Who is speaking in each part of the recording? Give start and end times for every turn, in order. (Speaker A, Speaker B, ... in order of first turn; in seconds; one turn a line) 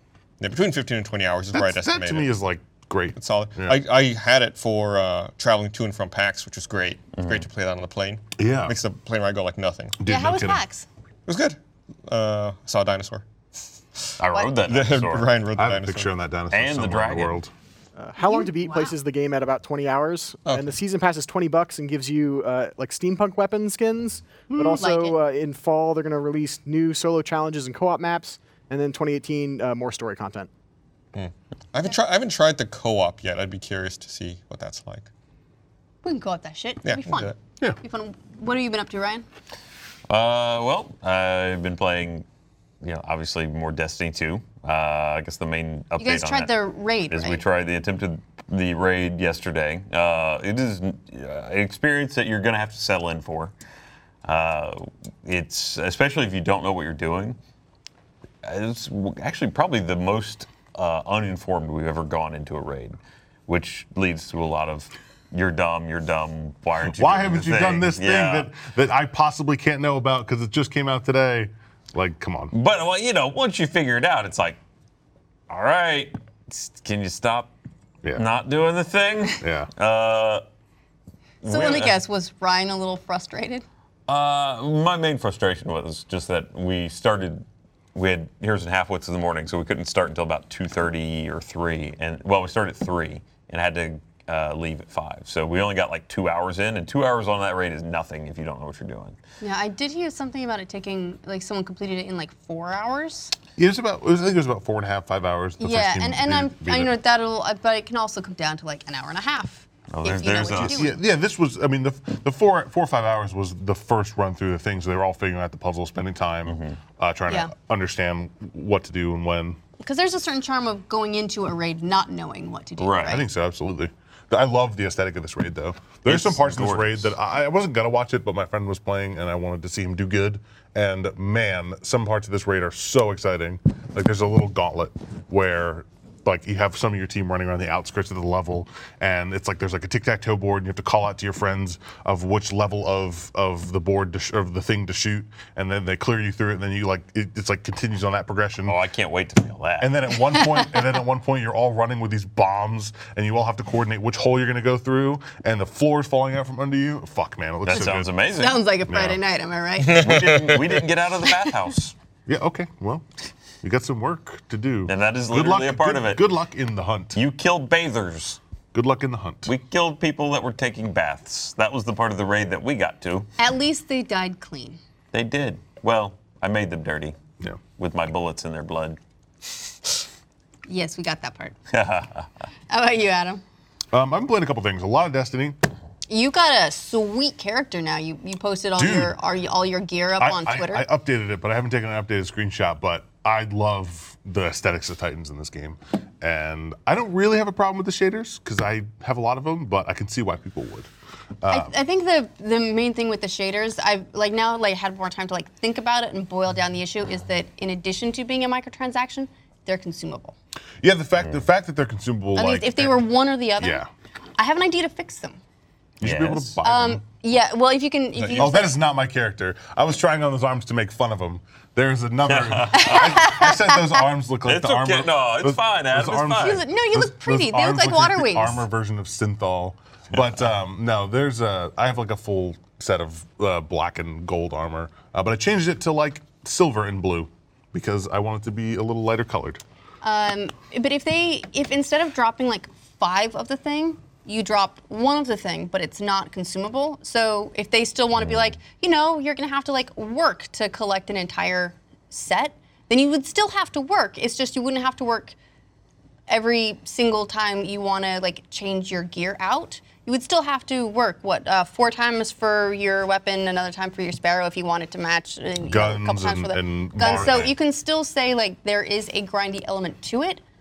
Speaker A: 0.4-2.3
Speaker B: 1.5-3.8
Speaker A: 3.1-10.0
Speaker C: 7.2-7.4
Speaker B: 8.4-8.8
Speaker B: 10.0-10.6
Speaker D: 10.0-10.9
Speaker A: 11.3-13.2
Speaker A: 14.0-16.1
Speaker C: 14.2-15.3
Speaker B: 15.6-17.5
Speaker C: 16.5-17.4
Speaker E: 18.0-30.5
Speaker D: 18.2-18.9
Speaker B: 24.5-24.8
Speaker D: 24.6-25.2
Speaker A: 31.1-35.1
Speaker D: 36.0-39.2
Speaker A: 36.9-37.4
Speaker C: 40.1-42.2
Speaker C: 42.8-53.5
Speaker D: 46.0-47.4
Speaker C: 54.2-57.4
Speaker C: 58.4-63.0
Speaker C: 63.5-68.5
Speaker B: 66.8-72.5
Speaker C: 72.5-74.6
Speaker C: 75.5-77.5
Speaker C: 78.1-80.4
Speaker B: 79.4-79.7
Speaker C: 81.4-82.0
Speaker D: 81.4-83.6
Speaker C: 84.1-87.4
Speaker C: 88.0-99.2
Speaker D: 99.4-103.3
Speaker B: 103.6-106.9
Speaker D: 105.6-111.0
Speaker C: 109.9-110.9
Speaker B: 110.6-119.6
Speaker C: 116.5-116.8
Speaker D: 119.8-123.2
Speaker C: 122.8-123.2
Speaker B: 123.0-148.8
Speaker C: 126.1-127.1
Speaker C: 148.7-149.9
Speaker B: 149.8-158.1
Speaker D: 150.4-150.8
Speaker C: 157.6-158.6
Speaker D: 158.4-160.4
Speaker B: 158.9-159.2
Speaker A: 159.8-160.8
Speaker C: 160.0-161.9
Speaker B: 162.3-163.1
Speaker B: 163.6-167.2
Speaker C: 164.9-166.2
Speaker C: 167.1-168.4
Speaker B: 168.7-169.5
Speaker C: 169.5-173.3
Speaker D: 173.4-174.8
Speaker C: 175.1-177.2
Speaker C: 177.8-179.0
Speaker D: 180.7-181.6
Speaker C: 181.7-182.3
Speaker D: 182.7-183.4
Speaker B: 183.9-185.6
Speaker D: 186.1-190.9
Speaker B: 188.8-189.2
Speaker B: 190.2-200.9
Speaker B: 201.4-201.7
Speaker D: 201.5-210.4
Speaker B: 210.8-213.0
Speaker D: 212.4-213.8
Speaker B: 213.6-213.9
Speaker D: 214.4-215.4
Speaker B: 216.0-217.0
Speaker C: 216.0-216.6
Speaker D: 216.6-218.8
Speaker B: 218.3-239.6
Speaker C: 222.3-223.2
Speaker D: 222.8-224.0
Speaker C: 224.4-226.6
Speaker D: 226.4-228.6
Speaker D: 240.0-255.4
Speaker D: 256.3-270.4
Speaker B: 265.6-267.5
Speaker C: 267.0-267.5